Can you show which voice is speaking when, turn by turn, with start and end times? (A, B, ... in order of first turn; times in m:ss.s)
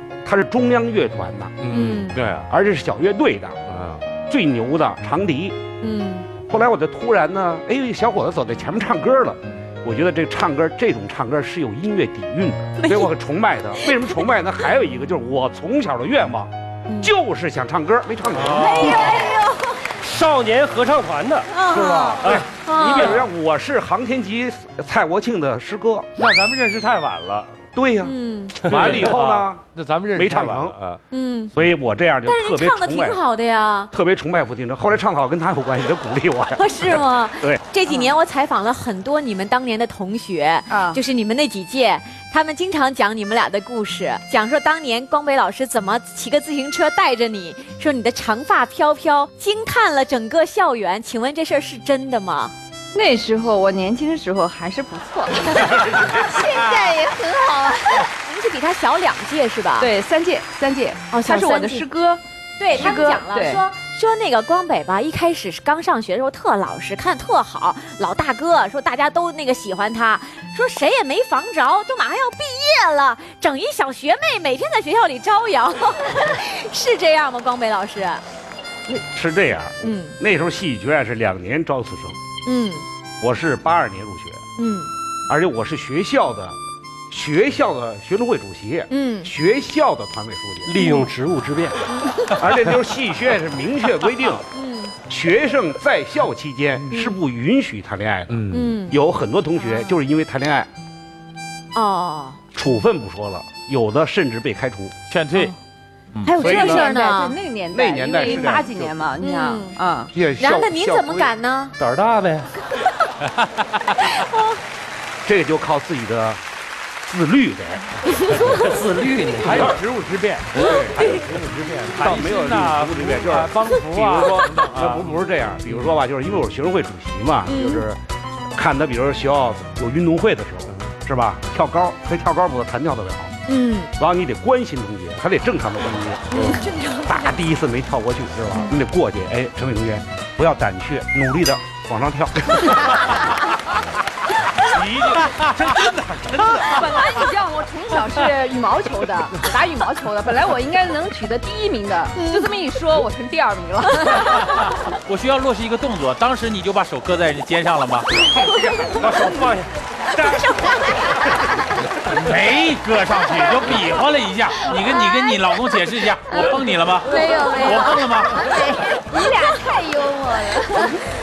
0:00.2-0:01.7 A
0:01.7-0:02.2 B
0:01.7-0:02.4 C
0:02.3-0:03.6 A
0:04.2-0:05.6 A
0:05.8-0:06.3 B
0:06.5-0:19.3 A
0:12.8-0:13.1 B
0:18.4-0:19.0 C
0:18.5-0:20.0 B
0:19.9-0:22.4 C
0:21.5-0:23.2 B
0:22.2-0:26.1 A
0:26.2-0:27.6 C
0:27.7-0:30.8 A
0:28.0-0:28.9 B
0:28.6-0:31.0 C
0:31.1-0:31.5 B
0:31.5-0:33.2 A
0:32.2-0:33.9 B
0:33.9-0:37.6 A
0:36.5-0:52.5 B
0:37.9-0:38.1 D
0:40.7-0:41.0 D
0:52.9-0:58.1 D
0:57.8-0:59.9 B
0:59.8-1:02.2 D
1:01.1-1:01.9 B
1:02.6-1:18.2 B
1:02.7-1:03.6 D
1:18.9-1:22.2 A
1:19.8-1:20.2 B
1:22.4-1:22.8 B
1:23.2-1:24.4 A
1:24.6-1:24.9 B
1:25.3-1:26.6 A
1:27.1-1:30.7 A
1:28.9-1:29.3 B
1:30.7-1:31.8 C
1:30.7-1:31.1 B
1:31.9-1:32.4 B
1:32.3-1:34.5 A
1:34.5-1:34.9 B
1:35.1-1:40.7 A
1:38.5-1:39.0 B
1:41.7-1:42.4 B
1:42.5-1:44.9 A
1:45.1-1:45.5 E
1:46.1-1:46.4 E
1:46.2-1:47.4 B
1:46.2-1:50.1 D
1:46.4-1:47.0 A
1:47.7-1:48.9 A
1:48.2-1:48.6 B
1:49.2-1:49.8 B
1:50.1-1:51.3 A
1:50.4-1:51.8 B
1:51.8-1:52.5 C
1:54.0-1:54.6 B
1:55.2-1:56.4 A
1:57.0-1:58.1 A
1:58.5-2:05.1 C
2:00.5-2:01.2 A
2:00.6-2:01.2 B
2:01.8-2:08.0 A
2:07.5-2:07.8 B
2:08.5-2:13.4 A
2:13.5-2:13.9 B
2:14.0-2:23.2 A
2:16.3-2:17.4 B
2:24.6-2:25.4 A
2:25.1-2:26.9 E
2:26.6-2:34.5 D
2:32.2-2:32.5 B
2:34.2-2:38.3 E
2:38.4-2:39.0 B
2:38.4-2:39.8 C
2:40.1-2:41.6 B
2:42.1-2:48.4 E
2:44.8-2:45.3 B
2:46.3-2:51.0 D
2:47.0-2:49.6 B
2:50.7-2:51.0 B